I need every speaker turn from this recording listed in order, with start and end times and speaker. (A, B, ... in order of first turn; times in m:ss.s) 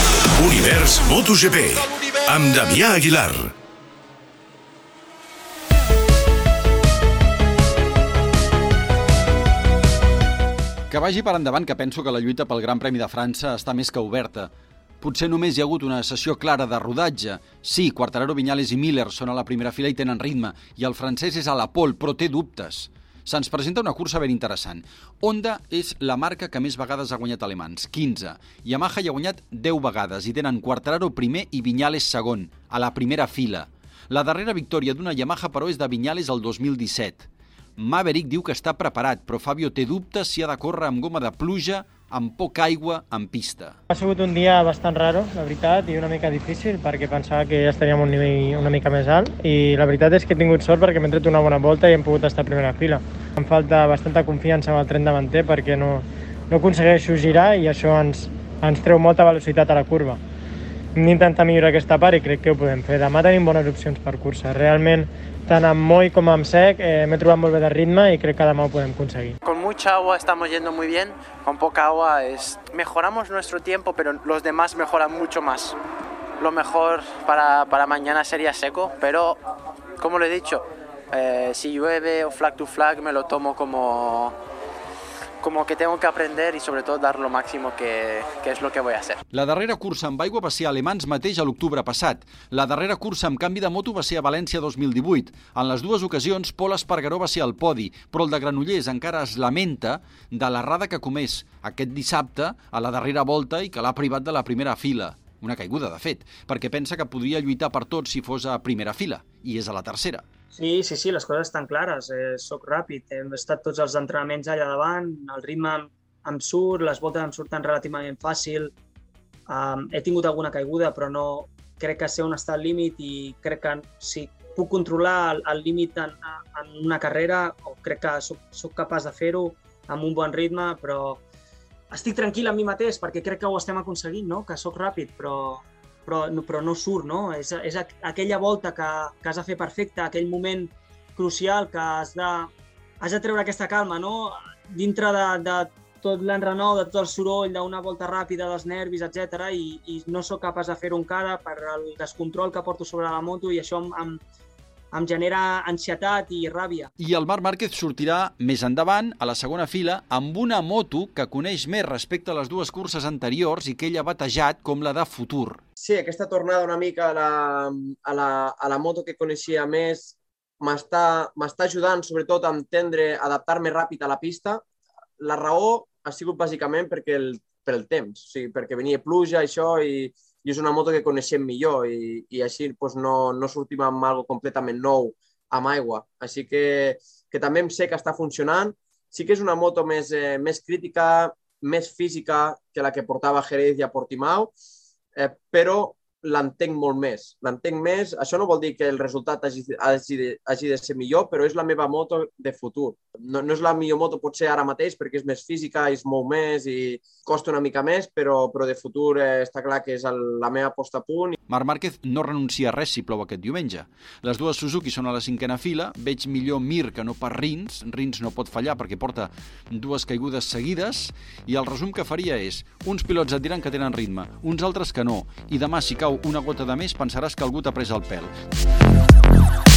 0:00.4-0:03.5 A
0:10.9-0:37.3 B
0:37.8-0:43.8 B
0:43.9-1:00.2 C
1:01.0-1:09.4 C
1:09.4-1:15.8 D
1:16.4-1:19.4 D
1:20.0-1:24.4 D
1:25.4-1:29.2 D
1:29.3-1:50.2 B
1:50.5-1:58.7 E
1:59.5-2:11.2 E
2:11.9-2:34.2 E
2:34.9-2:36.9 E
2:37.0-2:45.6 B
2:45.8-2:54.6 F
2:55.2-3:14.5 F
3:15.2-3:31.4 F
3:31.5-3:48.3 B